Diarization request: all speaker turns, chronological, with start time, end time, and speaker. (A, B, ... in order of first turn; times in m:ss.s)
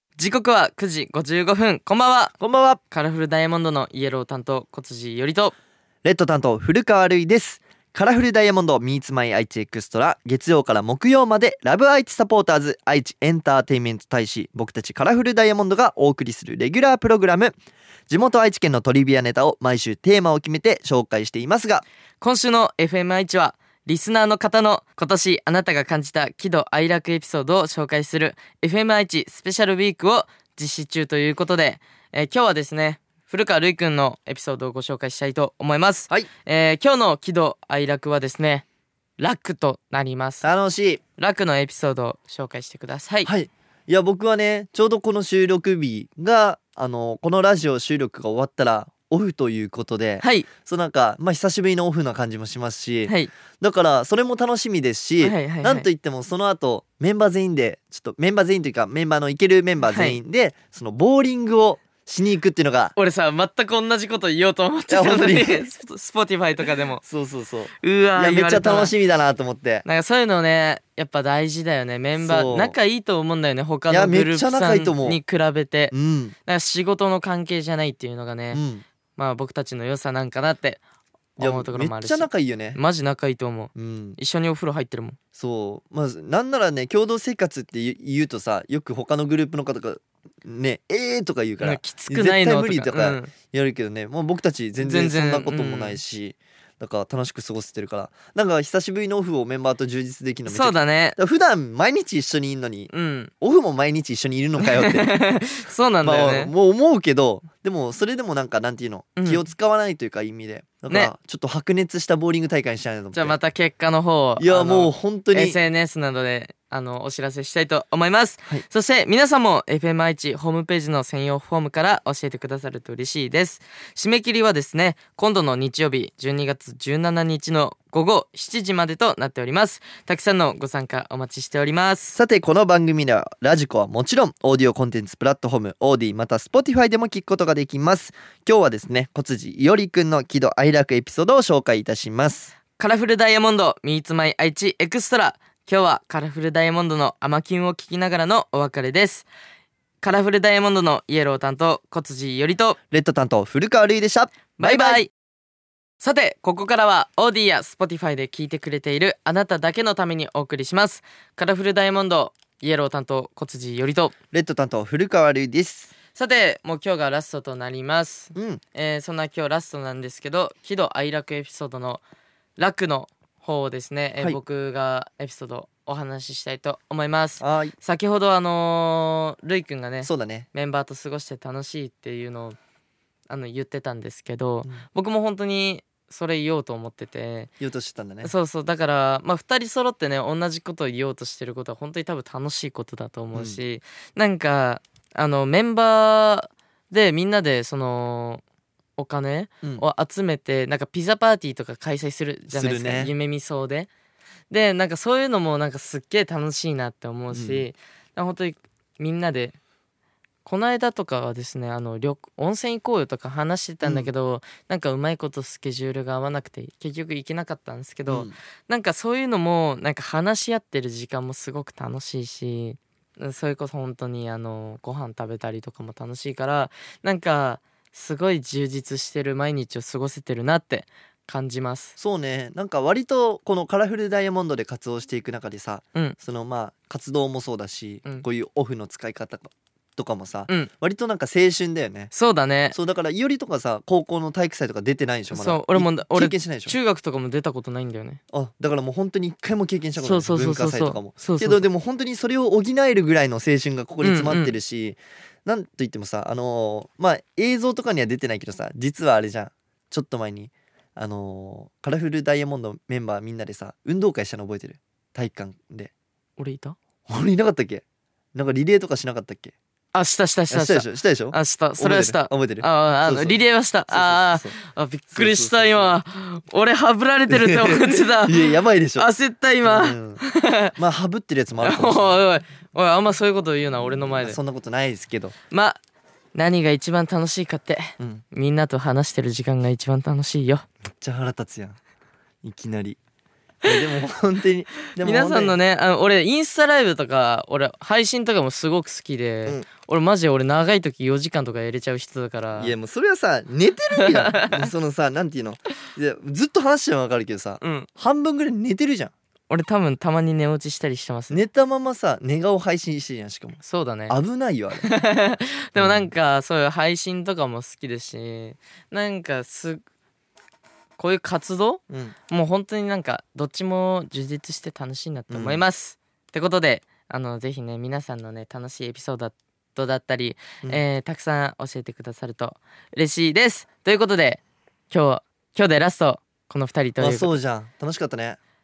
0:00.2-0:02.4 A
0:02.4-0:02.8 B
0:02.9-0:05.6 A
0:06.0-0:17.5 B
0:18.1-0:21.8 B
0:22.2-0:38.6 A
0:39.2-0:40.5 A
0:40.4-0:41.0 B
0:41.2-0:43.3 A
0:43.2-1:03.0 B
0:50.2-0:50.5 A
0:53.1-0:53.3 A
0:55.2-0:55.9 A
0:59.8-1:00.2 A
1:03.0-1:07.0 A
1:04.9-1:05.7 B
1:07.0-1:09.8 B
1:07.8-1:08.9 A
1:09.8-1:15.9 A
1:12.2-1:12.8 B
1:13.9-1:15.2 B
1:15.9-1:16.4 B
1:16.5-1:18.6 A
1:18.5-1:18.8 B
1:19.2-1:20.8 A
1:21.4-1:22.8 B
1:21.4-1:25.2 A
1:23.8-1:24.2 B
1:25.4-1:45.2 B
1:31.6-1:33.3 A
1:34.8-1:36.0 A
1:40.5-1:41.2 A
1:42.9-1:43.3 A
1:44.6-1:46.5 A
1:46.0-1:53.4 B
1:49.2-1:49.4 A
1:53.1-2:12.2 A
1:54.4-1:55.6 B
2:12.2-2:22.5 B
2:22.8-2:29.3 A
2:30.0-2:32.8 A
2:32.9-2:35.0 B
2:34.6-2:35.1 A
2:36.0-2:44.1 A
2:44.3-2:45.9 B
2:46.1-2:52.0 A
2:48.4-2:48.6 B
2:52.6-3:02.6 A
2:57.4-2:57.8 B
3:00.0-3:00.5 B
3:03.3-3:07.5 A
3:07.6-3:08.3 B
3:08.2-3:18.4 A
3:13.3-3:13.6 B
3:19.0-3:23.9 A
3:22.5-3:23.1 B
3:24.5-3:29.6 A
3:27.3-3:27.7 B
3:30.4-3:52.0 A
3:33.8-3:34.1 B
3:38.1-3:38.4 B
3:52.0-4:02.1 B
4:02.1-4:02.8 A
4:02.7-4:06.8 B
4:05.3-4:08.2 A
4:08.3-4:25.9 B
4:10.0-4:11.6 A
4:14.0-4:14.6 A
4:26.4-4:26.8 A
4:27.1-4:27.8 B
4:28.4-4:29.5 B
4:29.9-4:40.7 A
4:30.5-4:34.6 B
4:35.1-4:36.0 B
4:37.3-4:39.1 B
4:39.6-4:40.2 B
4:40.8-4:42.2 B
4:41.6-4:44.4 A
4:43.8-4:45.4 B
4:45.5-4:45.8 A
4:46.4-4:50.6 A
4:48.0-4:48.2 B
4:51.0-4:51.8 B
4:52.4-4:53.0 B
4:53.6-4:55.6 B
4:55.0-5:02.7 A
5:02.6-5:09.1 B
5:04.0-5:04.7 A
5:07.6-5:07.9 A
5:09.5-5:11.4 A
5:11.3-5:14.9 B
5:13.6-5:14.2 A
5:14.8-5:19.8 A
5:15.8-5:16.1 B
5:21.0-5:37.3 A
5:21.9-5:22.2 B
5:25.3-5:25.6 B
5:37.0-5:38.4 B